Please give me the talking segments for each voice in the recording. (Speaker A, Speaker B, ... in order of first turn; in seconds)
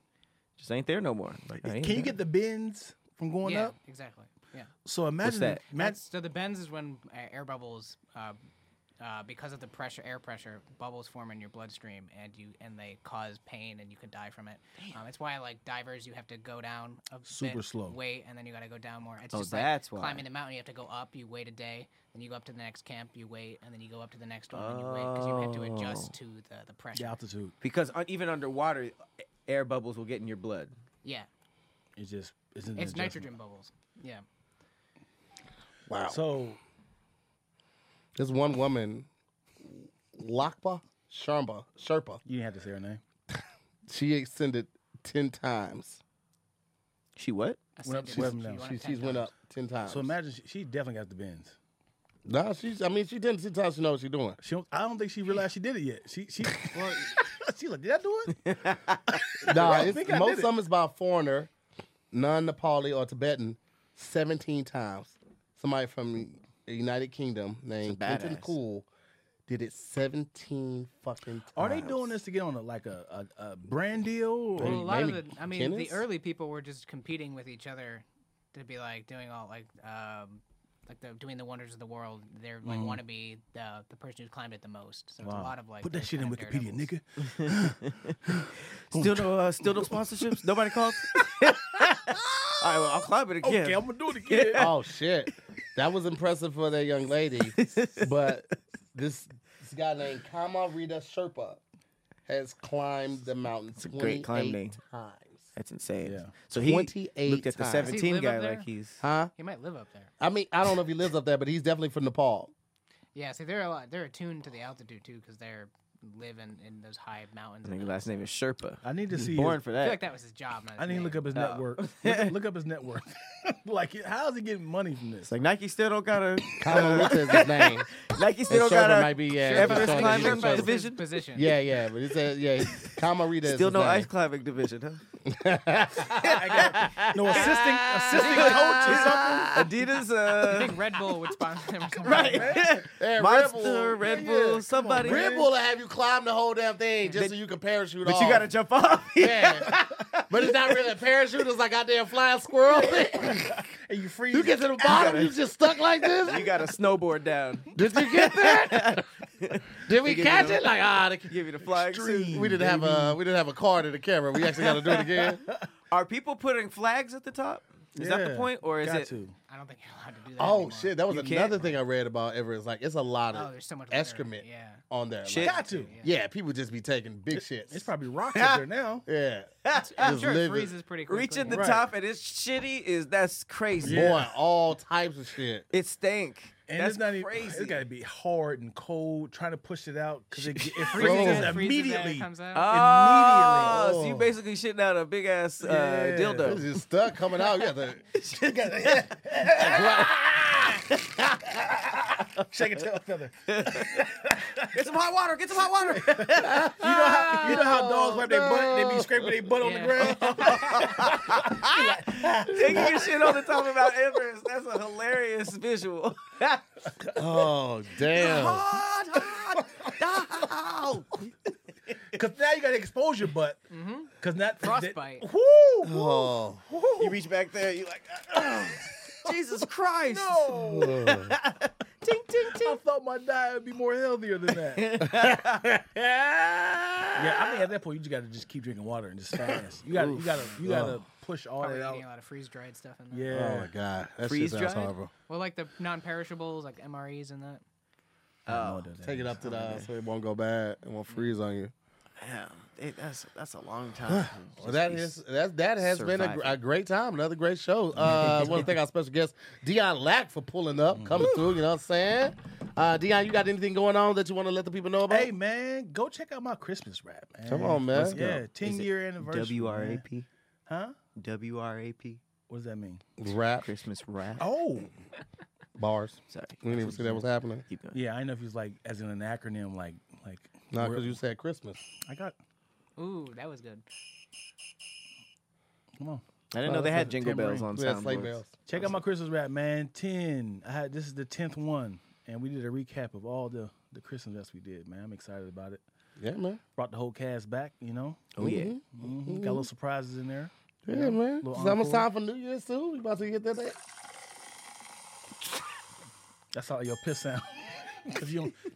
Speaker A: 0.6-2.2, 5.2-5.6, 19.3-20.2, 24.5-26.1, 27.6-30.7, 47.2-47.6, 58.3-59.2, 67.8-68.6, 87.2-88.2, 88.9-94.7, 97.5-98.3, 103.8-104.8, 105.6-109.0, 117.6-120.0, 121.3-122.3, 125.2-131.1, 132.7-135.0, 136.2-140.8, 142.0-145.3, 148.0-150.8, 154.9-155.3, 156.2-160.7, 161.3-162.3, 164.6-165.0, 165.9-169.1, 171.1-171.7, 175.3-175.6, 178.3-178.6, 179.6-180.3, 181.1-184.1, 185.7-187.8, 190.4-191.1, 192.5-196.7, 198.1-200.1, 200.9-201.2, 203.5-207.7, 210.0-216.7, 218.1-221.3, 221.9-222.2, 227.0-232.8, 234.7-235.7, 244.2-244.9, 248.5-248.9, 249.4-249.9, 252.2-255.2, 255.8-256.6, 258.1-258.6, 267.9-270.3, 271.2-272.2, 273.6-274.5, 276.3-278.0, 286.5-288.4, 298.4-298.7
Speaker B: 1.6-3.7, 4.8-6.0, 17.3-18.0, 26.9-27.6, 31.9-33.3, 36.1-36.6, 42.2-43.0, 47.9-48.7, 49.9-51.6, 54.4-58.5, 59.1-60.5, 71.6-75.2, 82.6-83.0, 85.2-90.4, 91.1-94.7, 106.0-106.3, 118.8-119.6, 120.8-125.3, 126.7-127.4, 136.1-139.7, 142.1-142.6, 144.0-145.5, 152.6-155.4, 161.7-163.2, 164.9-165.7, 167.9-169.4, 175.4-175.9, 177.3-179.1, 181.4-181.9, 183.8-184.3, 186.7-193.9, 195.6-196.6, 198.3-200.1, 201.7-204.8, 205.7-213.3, 218.2-220.3, 222.1-223.7, 224.2-227.2, 228.3-228.7, 230.1-231.1, 232.5-234.9, 237.2-242.0, 243.1-243.7, 248.5-249.4, 258.0-258.7, 260.9-261.4, 265.1-270.1, 270.7-270.9, 272.5-273.0, 274.4-274.9, 277.9-281.2, 282.0-282.4, 286.0-287.7, 288.7-295.8, 296.8-298.4, 298.9-302.1, 306.5-308.6
Speaker C: 3.4-4.7, 5.7-8.4, 9.0-27.2, 32.8-34.2, 47.8-49.3, 74.6-86.9, 107.8-108.7, 109.3-110.1, 113.1-118.3, 119.8-121.3, 129.3-131.6, 138.1-139.2, 140.4-142.6, 169.5-171.0, 173.3-174.8, 175.4-176.1, 179.7-181.6, 190.8-192.7, 209.6-210.9, 223.7-225.3, 241.6-243.3, 245.3-247.6, 251.1-251.3, 283.0-283.8
Speaker D: 35.9-36.2, 38.2-39.1, 39.7-42.2, 43.9-46.0, 48.1-50.1, 52.3-54.4, 59.5-61.5, 62.1-68.9, 69.5-72.1, 74.6-76.0, 94.6-101.6, 102.3-105.5, 106.5-107.9, 109.0-109.3, 110.2-112.5, 126.6-128.0, 128.5-130.7, 131.3-134.1, 135.3-137.6, 142.8-144.2, 145.0-148.5, 149.2-153.6, 154.3-156.5, 157.7-159.1, 159.8-161.3, 162.3-165.4, 170.4-177.9, 179.1-180.7, 183.8-185.7, 190.9-191.5, 193.5-194.3, 196.4-198.1, 199.6-201.9, 206.4-209.5, 212.6-213.0, 217.2-218.6, 225.8-226.6, 230.5-231.3, 235.1-237.6, 240.6-241.0, 243.3-245.1, 249.0-251.7, 254.1-265.3, 267.4-268.4, 273.2-273.7, 275.8-277.6, 280.7-281.8, 287.7-288.7, 296.2-296.6, 298.4-299.7, 300.9-303.8